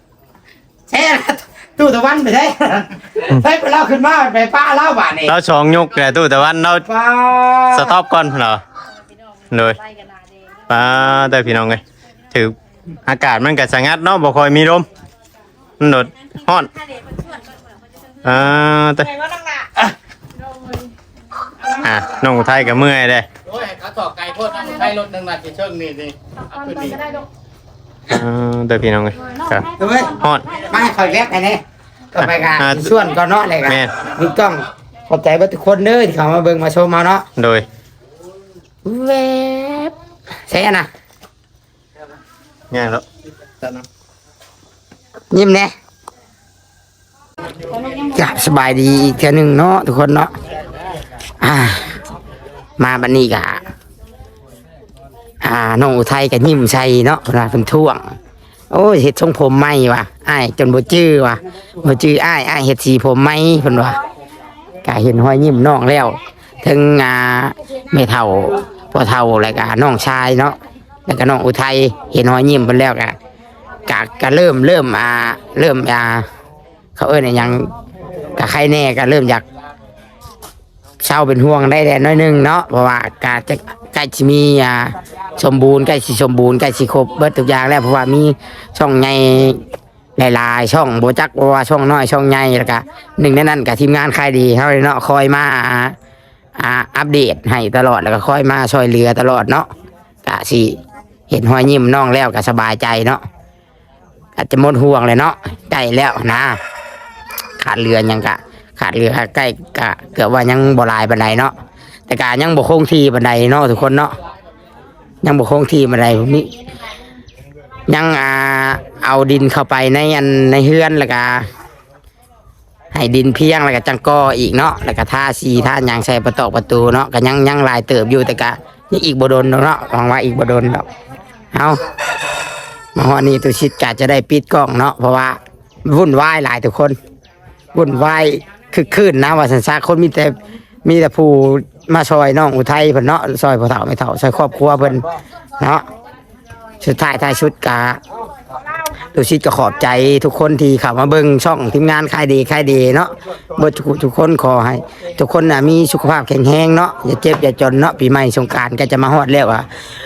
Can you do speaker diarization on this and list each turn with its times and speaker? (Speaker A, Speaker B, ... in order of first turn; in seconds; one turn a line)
Speaker A: 0.9-5.3
Speaker B: 5.3-6.8
Speaker A: 6.8-7.9
Speaker B: 7.7-8.6
Speaker B: 9.5-9.8
Speaker B: 10.7-11.8
Speaker B: 13.1-14.8
Speaker B: 15.8-16.7
Speaker B: 18.2-19.1
Speaker B: 21.8-23.3
Speaker C: 24.0-26.0
Speaker B: 28.1-30.5
Speaker A: 29.8-31.6
Speaker A: 32.1-37.2
Speaker B: 32.2-32.9
Speaker B: 33.6-34.0
Speaker B: 37.4-37.6
Speaker A: 38.8-39.9
Speaker A: 40.5-40.9
Speaker B: 42.7-43.0
Speaker A: 45.3-45.7
Speaker A: 48.0-50.3
Speaker A: 51.4-52.0
Speaker A: 52.8-53.6
Speaker A: 55.4-58.0
Speaker A: 58.7-64.0
Speaker A: 64.8-73.2
Speaker A: 73.8-76.2
Speaker A: 77.0-77.7
Speaker A: 78.3-79.4
Speaker A: 81.0-89.6
Speaker A: 90.2-95.9
Speaker A: 96.6-99.7
Speaker A: 100.2-100.8
Speaker A: 101.3-103.2
Speaker A: 104.4-106.6
Speaker A: 107.6-111.5
Speaker A: 112.1-114.1
Speaker A: 115.2-116.5
Speaker A: 117.9-121.4
Speaker A: 122.9-130.9
Speaker A: 131.5-131.8
Speaker A: 132.9-137.0
Speaker A: 137.7-145.0
Speaker A: 145.6-145.8
Speaker A: 146.8-148.0
Speaker A: 149.1-159.7